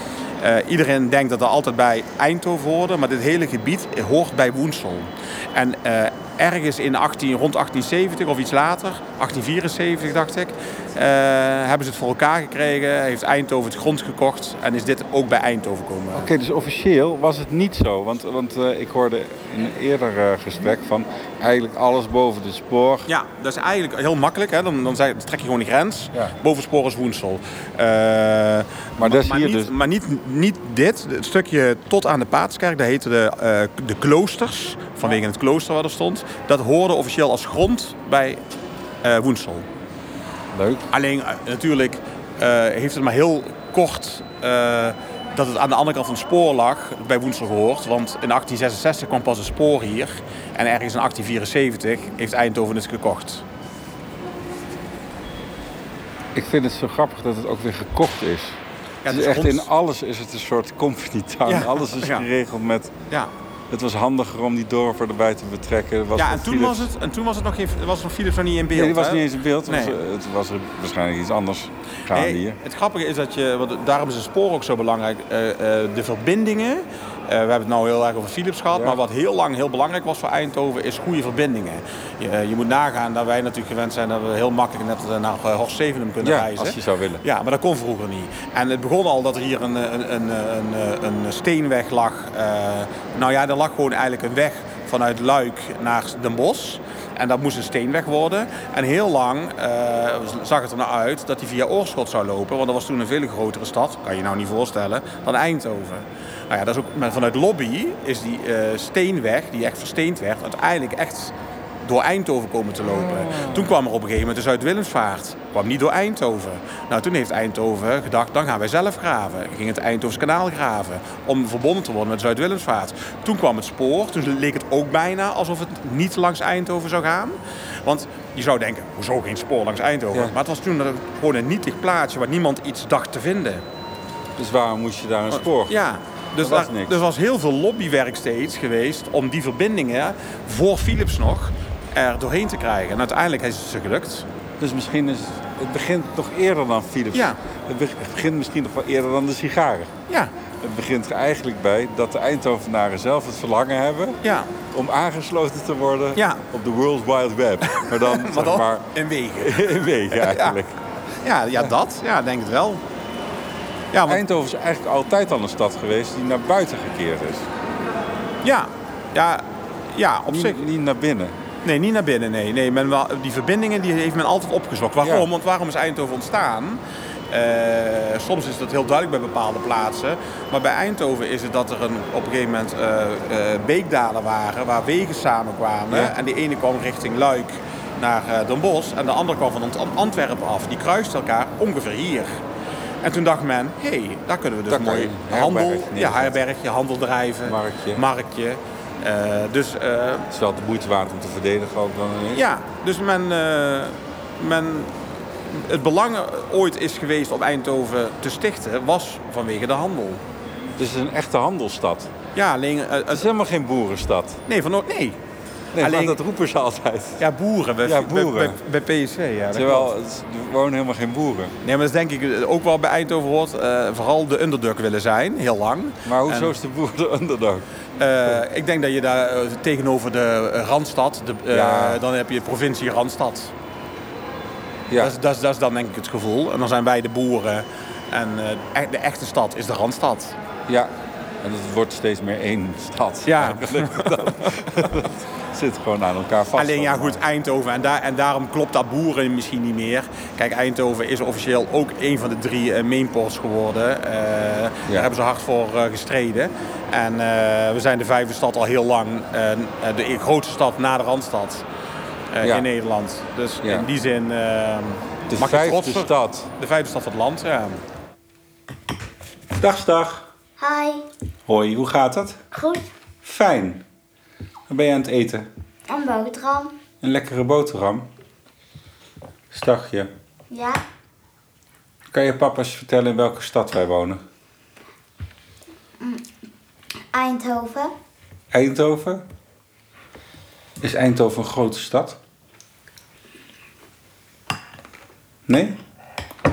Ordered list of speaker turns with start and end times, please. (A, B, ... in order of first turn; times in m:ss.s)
0:00.4-0:16.3 A
0:16.1-0:23.1 B
0:23.1-0:38.4 A
0:29.0-0:29.7 B
0:39.0-0:39.7 A
0:40.5-0:40.9 B
0:40.9-0:53.4 A
0:56.3-1:02.9 B
0:59.0-0:59.7 A
1:01.4-1:02.2 A
1:03.7-1:06.9 B
1:06.2-1:10.0 A
1:08.7-1:12.6 B
1:12.1-2:13.6 A
1:18.7-1:19.0 B
1:26.2-1:27.2 B
1:52.8-1:53.8 B
2:14.4-2:15.8 B
2:15.3-2:24.2 A
2:16.4-2:17.0 B
2:24.6-2:29.9 B
2:30.6-2:34.2 B
2:34.2-2:34.5 A
2:34.7-2:40.8 B
2:36.1-2:36.4 A
2:37.7-2:40.6 A
2:41.2-2:42.8 A
2:43.9-2:44.2 A
2:44.1-2:47.5 B
2:48.4-2:50.6 A
2:50.2-2:51.4 B
2:51.6-3:12.4 A
2:55.0-2:55.3 B
3:13.0-3:20.2 A
3:14.7-3:16.4 B
3:17.4-3:18.0 B
3:20.3-3:22.4 B
3:22.3-3:24.9 A
3:25.4-3:30.2 A
3:30.8-3:32.1 B
3:32.3-3:33.2 A
3:33.1-3:34.4 B
3:34.5-3:35.2 A
3:35.7-3:37.2 B
3:35.8-3:36.2 A
3:37.2-3:39.9 A
3:37.8-3:38.6 B
3:39.5-3:41.5 B
3:41.6-3:46.6 A
3:46.0-3:47.6 B
3:48.0-3:53.5 A
3:51.5-3:52.0 B
3:55.0-4:00.4 A
4:00.7-4:07.2 B
4:03.2-4:04.8 A
4:06.5-4:21.6 A
4:22.3-4:27.8 A
4:22.4-4:22.7 B
4:23.6-4:23.9 B
4:25.3-4:26.5 B
4:29.6-4:30.3 B
4:30.6-4:31.0 C
4:31.4-4:32.4 B
4:32.5-4:32.9 C
4:33.2-4:33.8 B
4:34.7-4:35.5 B
4:35.9-4:36.7 C
4:37.0-4:38.1 B
4:39.5-4:40.1 B
4:40.5-4:40.8 C
4:42.1-4:44.2 B
4:46.0-4:46.3 C
4:47.1-4:47.9 C
4:48.5-4:49.3 B
4:50.8-4:52.2 B
4:55.5-4:55.8 B